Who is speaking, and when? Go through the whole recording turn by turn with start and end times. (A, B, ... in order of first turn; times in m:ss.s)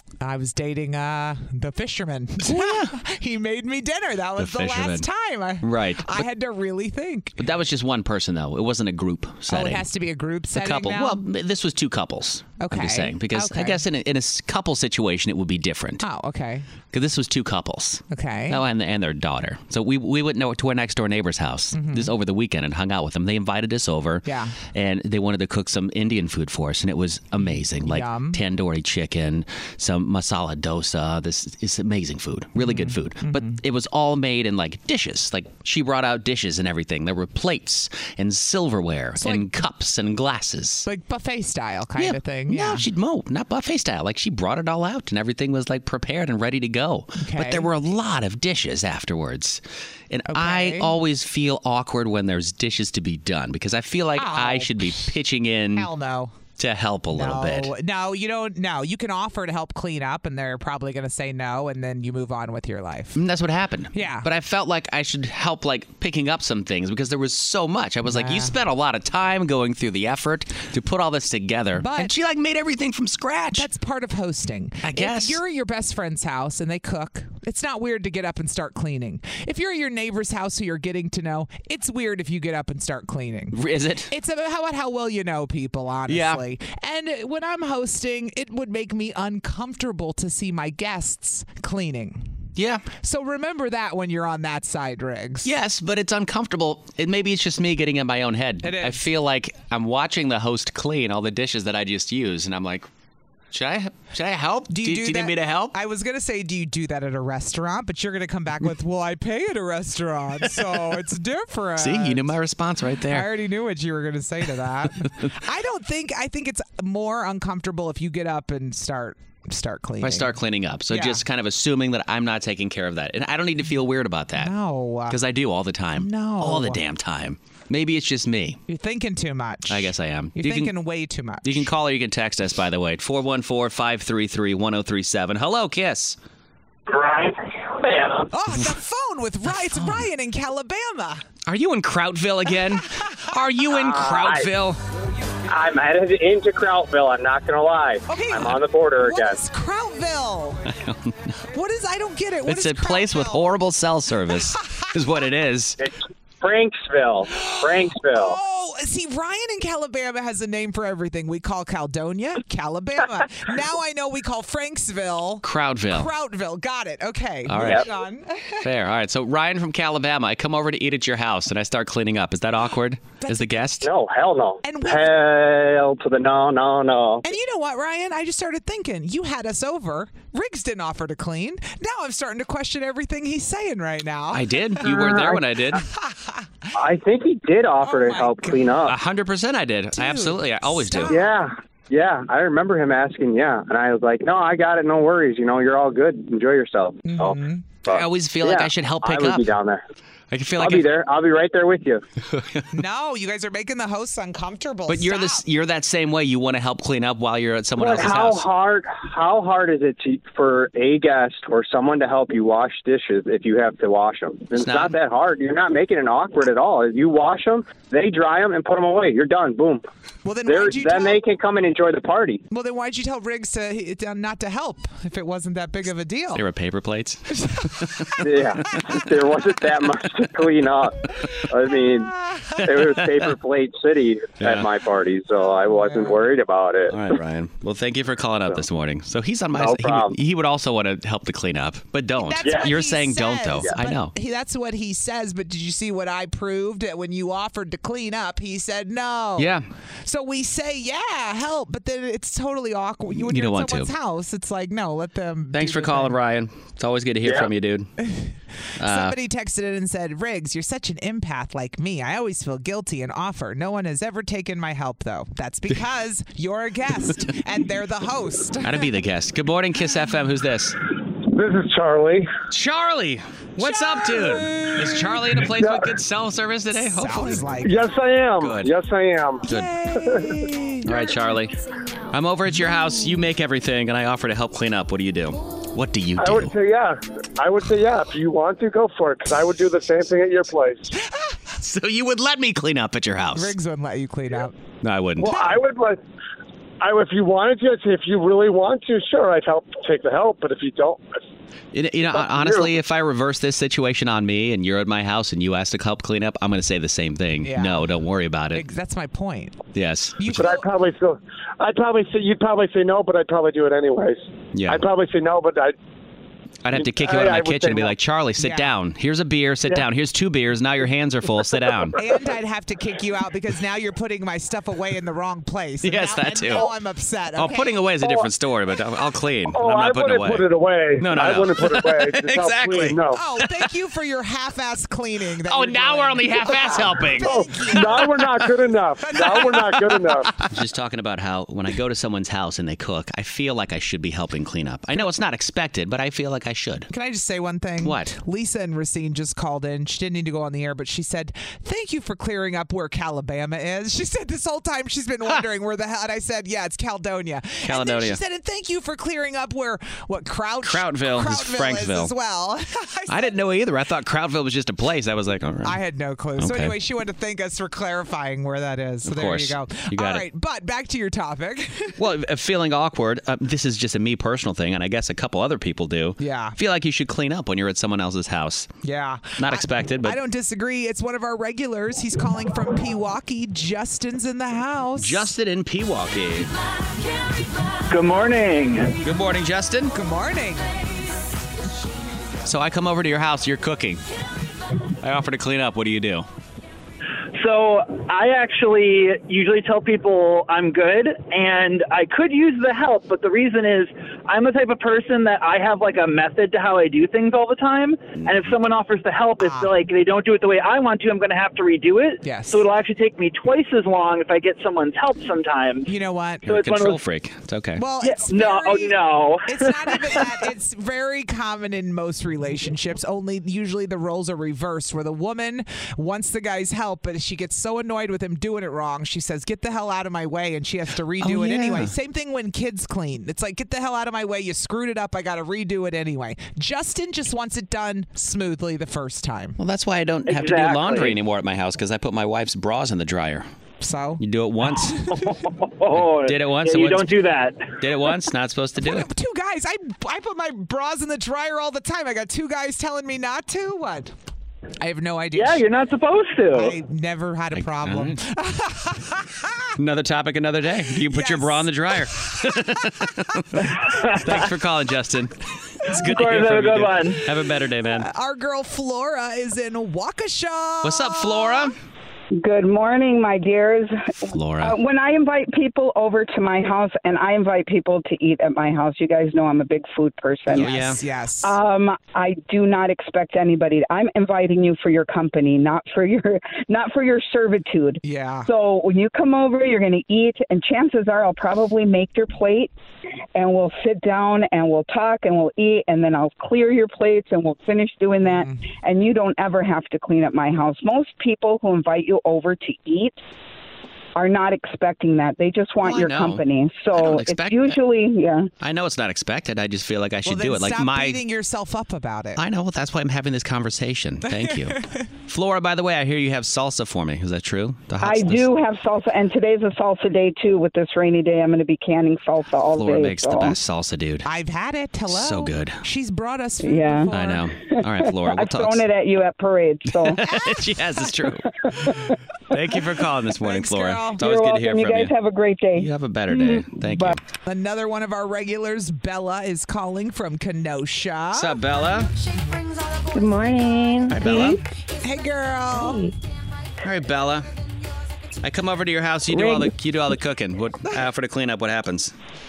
0:00.2-0:07.4 A
0:02.4-0:03.0 B
0:04.4-0:05.0 B
0:05.6-0:06.2 B
0:07.4-0:09.9 B
0:09.5-0:11.2 A
0:10.5-0:16.0 B
0:12.6-0:13.8 A
0:16.0-0:16.7 A
0:16.9-0:40.8 B
0:18.1-0:18.6 A
0:21.7-0:22.1 A
0:24.2-0:24.6 A
0:27.5-0:28.4 A
0:32.6-0:33.6 A
0:39.2-0:39.6 A
0:40.8-0:42.8 A
0:42.0-0:55.9 B
0:47.2-0:47.7 A
0:50.3-0:50.9 A
0:54.2-0:55.1 A
0:55.7-0:56.3 A
0:56.6-0:57.7 B
0:57.1-1:03.2 A
1:03.2-1:13.7 B
1:03.9-1:04.3 A
1:08.0-1:08.5 A
1:11.8-1:12.1 A
1:13.5-1:23.6 A
1:14.8-1:15.4 B
1:23.5-1:24.1 B
1:24.1-1:32.3 A
1:26.1-1:26.4 B
1:32.6-1:32.9 B
1:33.0-1:35.5 A
1:35.4-1:42.9 B
1:38.6-1:39.0 A
1:43.5-1:45.7 B
1:44.7-1:52.3 A
1:50.5-1:50.9 B
1:51.8-1:53.3 B
1:53.1-2:00.3 A
2:00.0-2:04.5 B
2:00.9-2:01.2 A
2:04.4-2:05.2 A
2:05.1-2:08.6 B
2:06.0-2:06.8 A
2:08.7-2:11.7 A
2:09.7-2:10.7 B
2:11.4-2:16.2 B
2:16.9-2:18.3 C
2:18.3-2:21.2 A
2:19.7-2:20.0 B
2:21.4-2:24.8 B
2:23.0-2:23.3 A
2:23.7-2:24.5 C
2:25.5-2:29.4 C
2:28.1-2:30.7 A
2:30.7-2:31.4 B
2:31.5-2:33.5 A
2:32.5-2:35.8 B
2:34.6-2:34.9 A
2:35.8-2:38.4 C
2:37.4-2:48.6 A
2:45.4-2:46.1 B
2:47.5-2:47.8 B
2:47.6-2:47.8 C
2:48.6-2:53.9 B
2:53.2-2:53.6 A
2:53.8-2:57.2 C
2:54.6-2:55.0 A
2:57.2-3:05.2 A
3:04.3-3:05.8 B
3:05.1-3:05.4 C
3:05.8-3:06.4 A
3:06.7-3:09.0 C
3:07.8-3:08.8 A
3:08.8-3:11.1 B
3:10.0-3:11.3 A
3:11.1-3:19.8 C
3:17.0-3:17.6 A
3:17.9-3:19.5 B
3:20.3-3:20.9 B
3:20.6-3:22.0 C
3:22.3-3:22.7 B
3:22.7-3:25.4 A
3:24.9-3:28.4 B
3:27.8-3:39.8 C
3:34.5-3:35.0 B
3:40.2-3:41.2 A
3:40.4-3:42.4 C
3:42.5-3:46.4 A
3:46.3-3:48.1 B
3:47.5-3:48.1 A
3:48.2-3:57.0 C
3:52.6-3:53.3 B
3:54.4-3:54.7 B
3:55.7-3:56.1 A
3:56.9-4:04.1 B
3:59.6-4:00.2 C
4:02.2-4:09.5 A
4:09.4-4:09.6 B
4:10.0-4:16.2 A
4:13.1-4:13.9 B
4:15.5-4:17.9 B
4:18.0-4:18.3 A
4:18.8-4:19.2 B
4:18.8-4:28.9 A
4:28.6-4:30.8 B
4:31.3-4:32.3 D
4:32.5-4:37.5 B
4:33.6-4:35.2 A
4:35.6-4:35.9 D
4:36.7-4:37.8 A
4:37.6-4:39.4 D
4:38.4-4:38.7 B
4:39.5-4:39.7 B
4:39.5-4:41.2 A
4:40.0-4:40.4 D
4:40.8-4:41.5 B
4:42.1-4:46.5 B
4:46.2-4:50.9 D
4:51.5-4:53.5 B
4:53.3-4:54.5 A
4:54.8-4:55.5 B
4:55.2-4:56.0 D
4:56.8-5:01.0 D
5:01.7-5:08.6 B
5:02.1-5:02.7 D
5:07.4-5:07.8 A
5:08.5-5:09.6 A
5:09.7-5:10.4 B
5:10.2-5:10.6 A
5:10.4-5:15.7 D
5:14.5-5:14.8 B
5:16.6-5:22.0 B
5:16.7-5:17.9 D
5:18.4-5:18.7 A
5:22.0-5:27.8 A
5:25.8-5:26.7 B
5:27.4-5:33.5 B
5:29.5-5:33.2 D
5:33.1-5:38.2 A
5:35.4-5:38.5 B
5:37.2-5:40.3 D
5:39.1-5:39.9 A
5:39.2-5:46.9 B
5:46.9-6:03.4 A
5:47.8-5:48.1 B
5:57.6-5:58.2 B
6:00.6-6:02.1 B
6:03.1-6:05.8 B
6:05.6-6:12.0 A
6:06.4-6:06.7 B
6:09.0-6:10.2 B
6:12.0-6:18.7 B
6:16.2-6:16.6 A
6:18.8-6:25.3 A
6:19.4-6:20.2 B
6:25.0-6:26.5 B
6:27.9-6:29.0 E
6:29.0-6:29.9 B
6:29.9-6:30.6 A
6:32.4-6:34.0 B
6:35.0-6:36.2 B
6:37.3-6:55.9 E
6:48.2-6:48.5 B
6:49.4-6:49.7 A
6:52.2-6:52.6 A
6:55.9-6:56.5 A
6:56.5-6:57.0 E
6:56.5-6:57.8 B
6:57.8-7:19.6 A
6:58.0-7:00.5 E
7:11.2-7:11.9 B
7:19.6-7:23.4 B
7:20.2-7:21.2 E
7:23.8-7:25.3 A
7:24.2-7:25.0 B
7:25.2-7:28.1 E
7:26.1-7:27.1 B
7:27.8-7:29.1 B
7:28.8-7:34.1 A
7:34.8-7:35.6 A
7:35.3-7:36.8 E
7:36.5-7:39.7 A
7:37.5-7:38.2 B
7:39.8-7:48.1 B
7:41.1-7:41.9 A
7:43.8-7:44.5 E
7:45.9-7:47.2 E
7:47.9-7:51.7 A
7:50.8-7:51.8 B
7:52.4-8:00.7 F
7:54.3-7:54.8 B
8:00.5-8:01.5 A
8:00.5-8:01.0 B
8:01.4-8:12.7 F
8:08.0-8:08.5 A
8:13.3-8:23.2 F
8:18.2-8:18.6 A
8:24.2-8:28.5 F
8:25.8-8:27.8 B
8:28.6-8:31.2 B
8:30.2-8:32.4 A
8:32.4-8:38.5 B
8:34.4-8:35.1 A
8:38.0-8:43.6 F
8:42.7-8:44.3 B
8:44.2-8:47.5 A
8:45.1-8:45.8 B
8:46.6-8:47.1 F
8:47.1-8:48.9 B
8:47.7-8:50.2 F
8:49.9-8:51.8 B
8:51.7-8:52.1 F
8:52.5-8:55.1 B
8:53.4-8:54.2 A
8:54.2-8:57.2 F
8:55.7-8:57.2 B
8:57.4-9:01.6 A
9:01.3-9:02.1 B
9:03.1-9:04.6 G
9:04.1-9:04.6 B
9:05.0-9:06.1 A
9:05.7-9:06.1 G
9:06.8-9:07.5 B
9:08.4-9:12.1 B
9:09.3-9:09.7 G